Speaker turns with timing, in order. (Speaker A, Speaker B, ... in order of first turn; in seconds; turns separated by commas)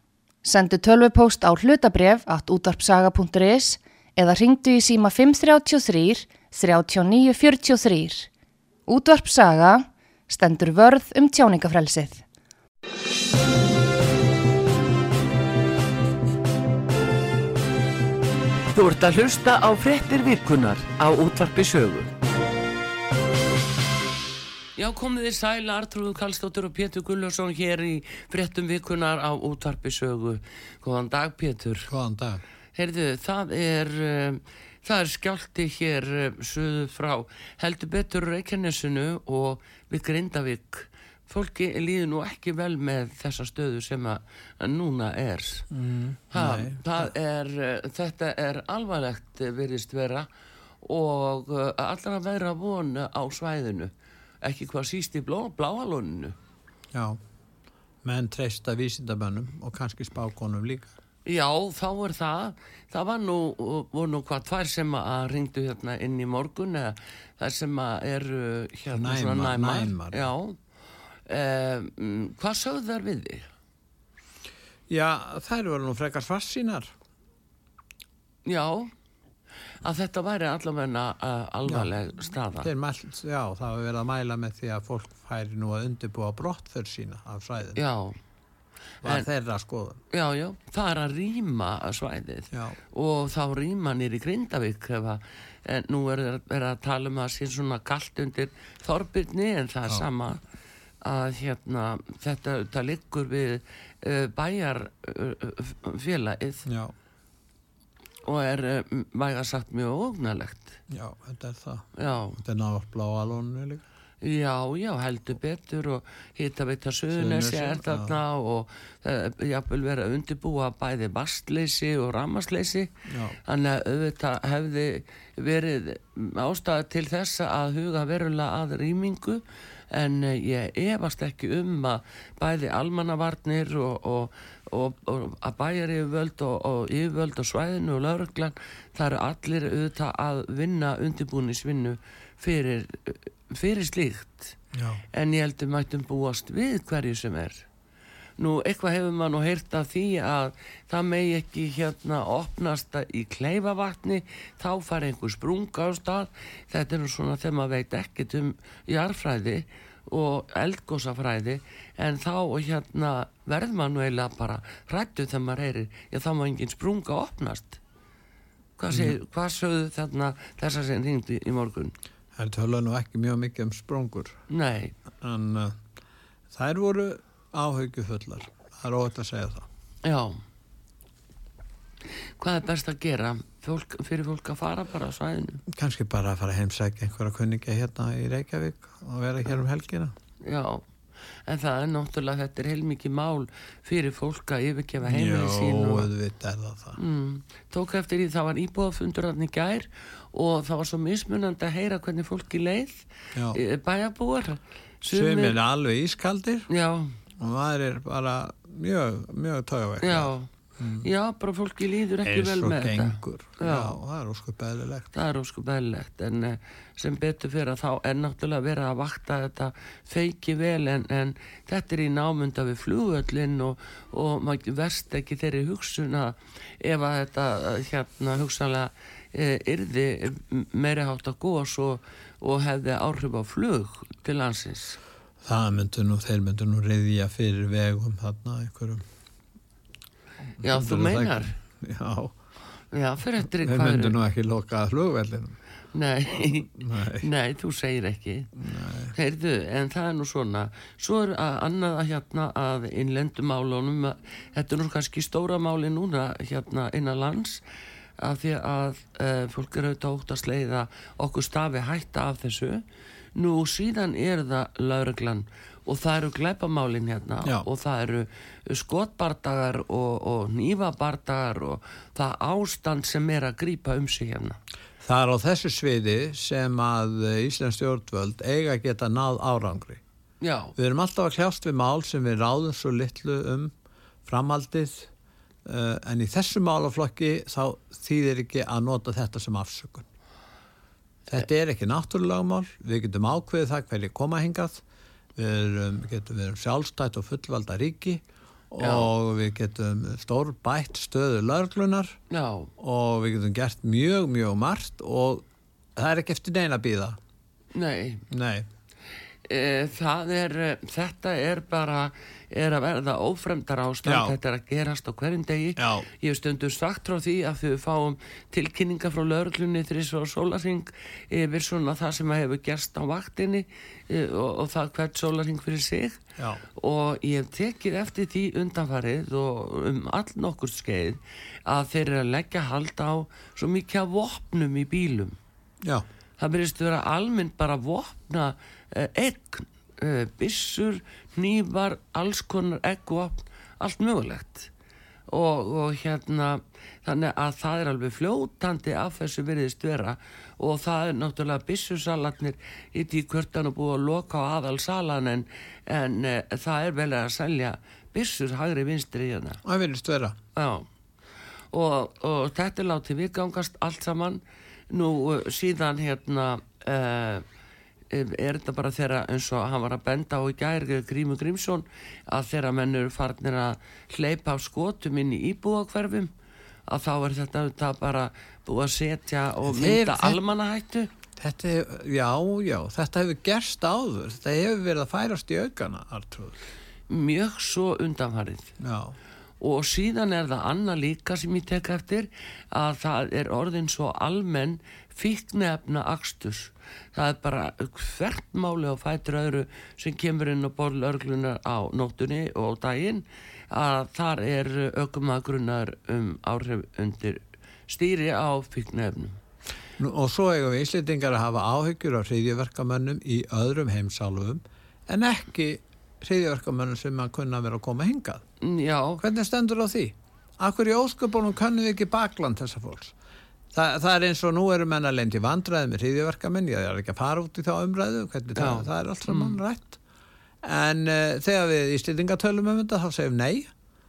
Speaker A: 0.4-8.3, Speaker A: 8.9-12.2, Speaker B: 18.7-22.1, Speaker B: 24.8-31.9, Speaker C: 31.9-32.4, Speaker B: 32.8-45.7, Speaker C: 45.7-47.1, Speaker B: 46.3-50.3, Speaker B: 50.8-53.9, Speaker B: 54.4-56.4, Speaker C: 56.9-57.2, Speaker C: 58.0-60.9, Speaker B: 61.2-70.6, Speaker C: 68.9-70.3, Speaker B: 71.3-73.5, Speaker C: 74.9-76.9, Speaker B: 78.5-78.9, Speaker B: 79.8-82.7, Speaker C: 81.7-81.9, Speaker C: 82.5-87.8, Speaker B: 87.8-88.2, Speaker C: 89.0-90.0, Speaker B: 90.1-100.4, Speaker B: 101.0-106.7, Speaker C: 106.7-106.9, Speaker B: 108.2-110.8, Speaker C: 110.9-111.9, Speaker B: 112.0-112.4, Speaker C: 112.4-113.8, Speaker B: 114.2-122.9, Speaker C: 117.1-118.2, Speaker C: 123.1-123.4, Speaker B: 123.4-144.6, Speaker C: 144.7-145.0, Speaker B: 145.1-147.7, Speaker B: 148.4-167.8, Speaker B: 168.8-171.9, Speaker C: 168.9-169.2, Speaker C: 172.3-174.4, Speaker B: 174.5-174.9, Speaker C: 175.1-175.8, Speaker C: 176.5-179.7, Speaker B: 180.0-180.4, Speaker B: 182.4-185.6, Speaker C: 185.7-190.1, Speaker B: 190.4-190.8, Speaker B: 191.5-196.1, Speaker C: 195.0-197.0, Speaker B: 196.9-205.6, Speaker C: 205.1-206.7, Speaker B: 206.7-207.2, Speaker C: 207.4-211.1, Speaker B: 210.0-210.5, Speaker B: 211.0-214.0, Speaker C: 212.2-215.1, Speaker B: 215.1-235.0, Speaker C: 235.4-239.0, Speaker C: 240.6-242.3, Speaker B: 240.6-241.6, Speaker B: 242.9-244.2, Speaker C: 243.6-245.6, Speaker B: 245.9-248.5, Speaker C: 246.4-247.3, Speaker C: 248.6-249.1, Speaker B: 249.1-257.6, Speaker B: 258.2-262.8, Speaker B: 263.3-274.6, Speaker C: 275.0-280.0, Speaker B: 280.4-280.7, Speaker C: 280.8-283.7, Speaker C: 284.2-285.1, Speaker C: 285.6-290.1, Speaker C: 291.3-294.8, Speaker C: 295.4-302.2, Speaker B: 298.8-299.1, Speaker B: 302.3-302.7, Speaker C: 302.8-305.4, Speaker C: 305.9-307.2, Speaker B: 307.7-308.2, Speaker C: 308.3-308.7, Speaker B: 309.5-326.2, Speaker C: 314.0-314.3, Speaker C: 315.8-316.1, Speaker C: 326.4-326.6, Speaker B: 326.8-335.3, Speaker B: 336.4-344.7, Speaker B: 345.3-359.6, Speaker C: 359.6-360.4, Speaker B: 360.5-360.9, Speaker B: 361.7-367.4, Speaker B: 368.1-376.3, Speaker B: 376.9-381.1, Speaker C: 379.6-380.4, Speaker C: 381.4-386.6, Speaker B: 387.1-388.7, Speaker C: 388.8-389.1, Speaker B: 389.6-409.4, Speaker C: 410.0-418.4, Speaker B: 418.6-419.2, Speaker C: 419.2-423.1, Speaker C: 423.7-430.0, Speaker B: 428.6-429.6, Speaker C: 430.6-433.7